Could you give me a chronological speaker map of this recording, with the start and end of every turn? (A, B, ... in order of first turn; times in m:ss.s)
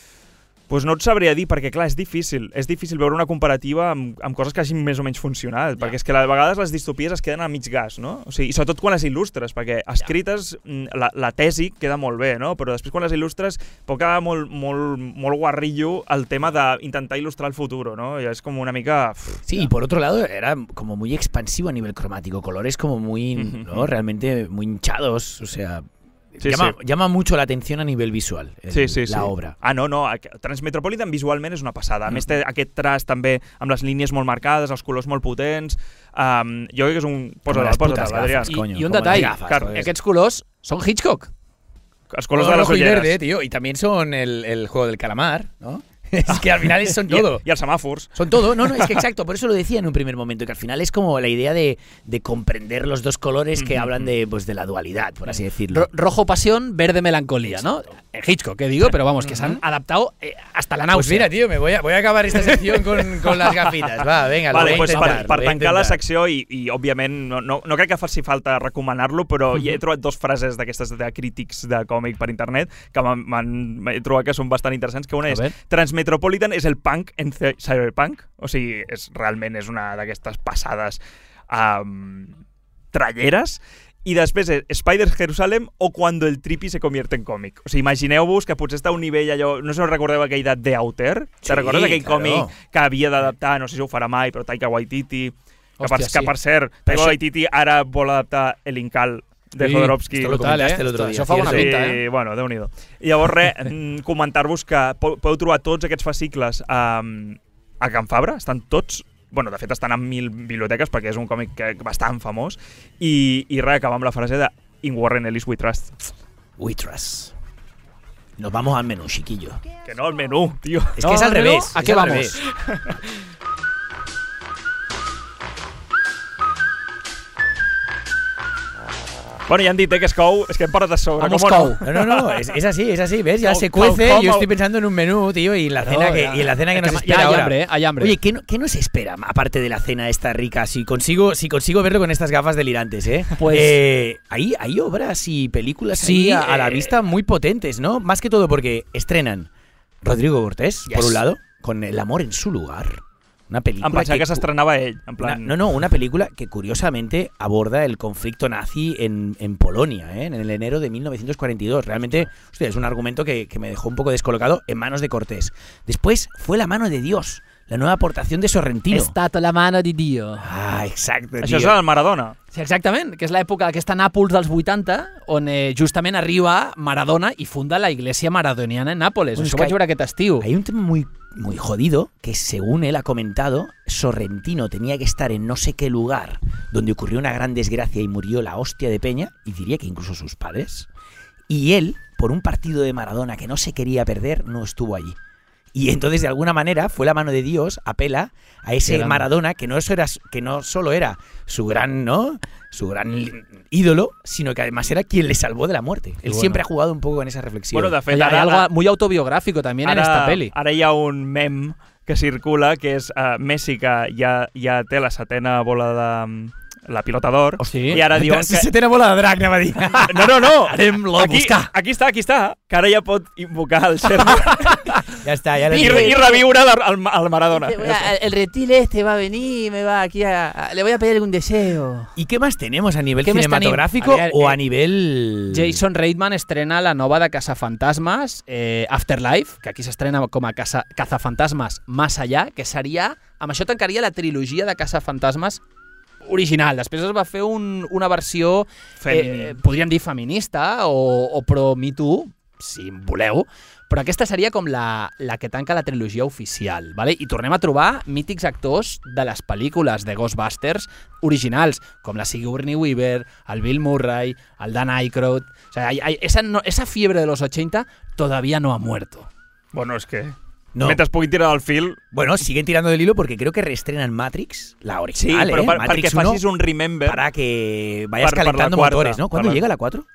0:00.7-0:19.5 A
0:19.4-0:29.5 B
0:23.4-0:23.9 A
0:26.4-0:26.7 A
0:28.7-0:38.6 A
0:37.5-0:39.9 B
0:38.5-0:41.3 C
0:39.1-0:39.8 A
0:42.1-0:43.2 A
0:42.3-0:47.4 B
0:46.3-0:49.0 A
0:48.2-0:55.9 B
0:53.6-0:54.1 A
0:55.7-1:01.3 C
0:59.2-0:59.6 B
1:00.9-1:06.0 B
1:03.3-1:03.8 A
1:04.5-1:22.4 A
1:04.5-1:05.4 C
1:15.2-1:15.5 C
1:22.9-1:40.6 A
1:31.4-1:32.5 B
1:35.8-1:36.3 C
1:36.9-1:37.2 B
1:39.6-1:42.0 C
1:40.1-1:41.8 B
1:41.3-1:56.0 A
1:56.6-1:57.3 B
1:58.4-1:59.6 B
1:59.8-2:01.0 A
2:01.0-2:02.4 B
2:01.0-2:02.4 C
2:02.4-2:03.2 A
2:09.5-2:12.4 A
2:11.2-2:11.8 C
2:11.8-2:29.5 B
2:13.4-2:14.5 A
2:15.8-2:18.2 C
2:23.4-2:23.8 C
2:25.9-2:27.0 C
2:30.0-2:34.5 B
2:30.9-2:31.2 C
2:33.8-2:35.6 A
2:35.2-2:49.1 B
2:48.9-2:50.5 C
2:50.4-2:51.8 B
2:51.4-2:52.4 A
2:52.5-3:00.5 C
2:59.3-2:59.8 B
3:00.4-3:10.9 B
3:11.5-3:15.2 B
3:15.7-3:28.0 B
3:18.8-3:19.3 C
3:26.2-3:26.6 C
3:27.7-3:28.7 A
3:28.1-3:30.5 C
3:29.8-3:38.7 A
3:37.6-3:38.0 C
3:37.8-3:41.3 B
3:40.1-3:44.9 A
3:40.7-3:41.7 C
3:44.3-3:45.0 C
3:45.2-3:46.2 B
3:45.7-3:46.4 C
3:45.8-3:47.9 A
3:47.5-3:52.1 C
3:52.2-3:55.8 B
3:53.2-3:54.6 C
3:55.5-4:05.6 C
4:06.2-4:29.3 C
4:09.0-4:09.6 A
4:29.7-4:32.0 A
4:30.7-4:31.0 B
4:32.1-4:36.4 B
4:35.2-4:37.2 A
4:37.0-4:40.0 B
4:38.2-4:39.6 A